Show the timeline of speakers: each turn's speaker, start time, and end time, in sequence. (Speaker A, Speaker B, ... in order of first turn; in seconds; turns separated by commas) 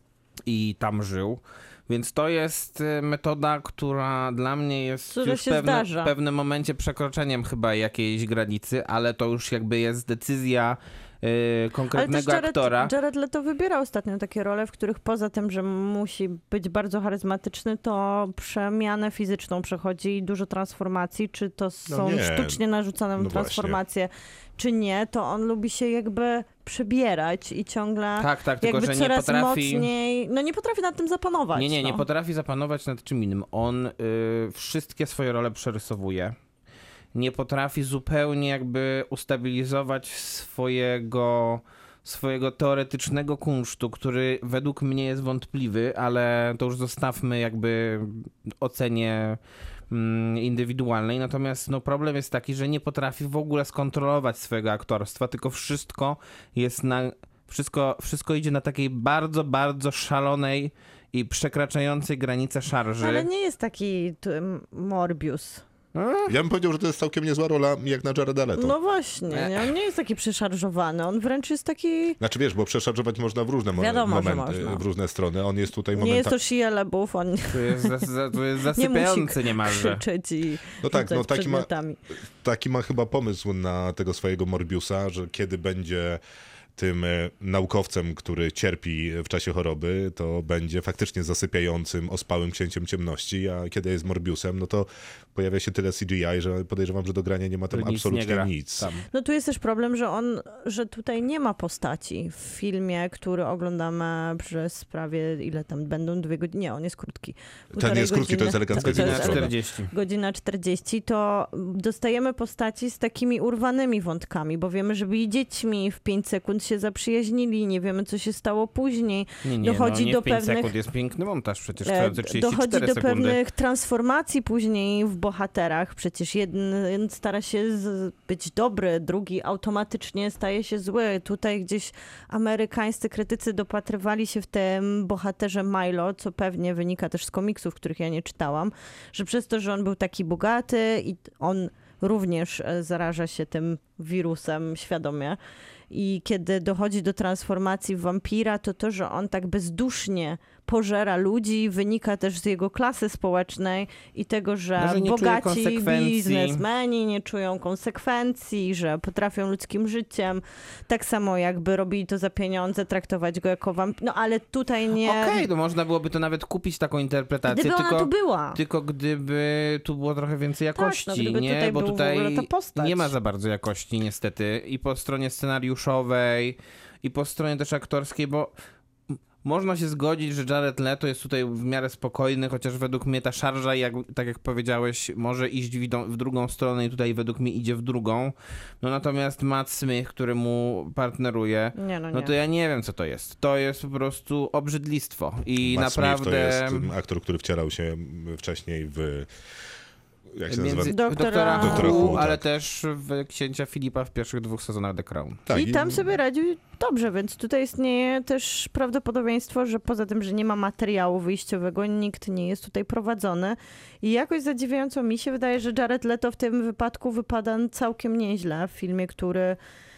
Speaker A: 0.5-12.9, Speaker B: 5.1-6.1, Speaker B: 11.9-32.0, Speaker C: 21.9-22.6, Speaker C: 23.2-23.8, Speaker A: 28.2-29.9, Speaker A: 31.5-36.4, Speaker A: 37.1-63.3, Speaker B: 63.0-65.6, Speaker A: 65.9-66.3, Speaker C: 66.3-68.7, Speaker B: 68.5-72.2, Speaker A: 69.3-69.7, Speaker C: 72.2-76.3, Speaker B: 73.7-74.8, Speaker B: 75.9-77.9, Speaker A: 77.5-80.0, Speaker B: 78.7-82.0, Speaker C: 80.8-81.7, Speaker C: 82.4-86.2, Speaker C: 86.8-98.9, Speaker A: 97.7-99.1, Speaker B: 99.1-120.7, Speaker C: 107.7-109.5, Speaker A: 108.8-109.9, Speaker A: 119.4-123.4, Speaker B: 121.8-145.4, Speaker B: 145.9-165.5, Speaker A: 154.8-156.6, Speaker A: 165.0-178.5, Speaker B: 167.5-168.6, Speaker B: 170.8-173.1, Speaker A: 179.4-196.9, Speaker B: 191.8-192.3, Speaker C: 195.6-199.3, Speaker C: 200.3-201.0, Speaker A: 200.5-205.4, Speaker B: 200.9-202.2, Speaker C: 201.5-202.4, Speaker C: 205.4-206.1, Speaker B: 205.5-219.6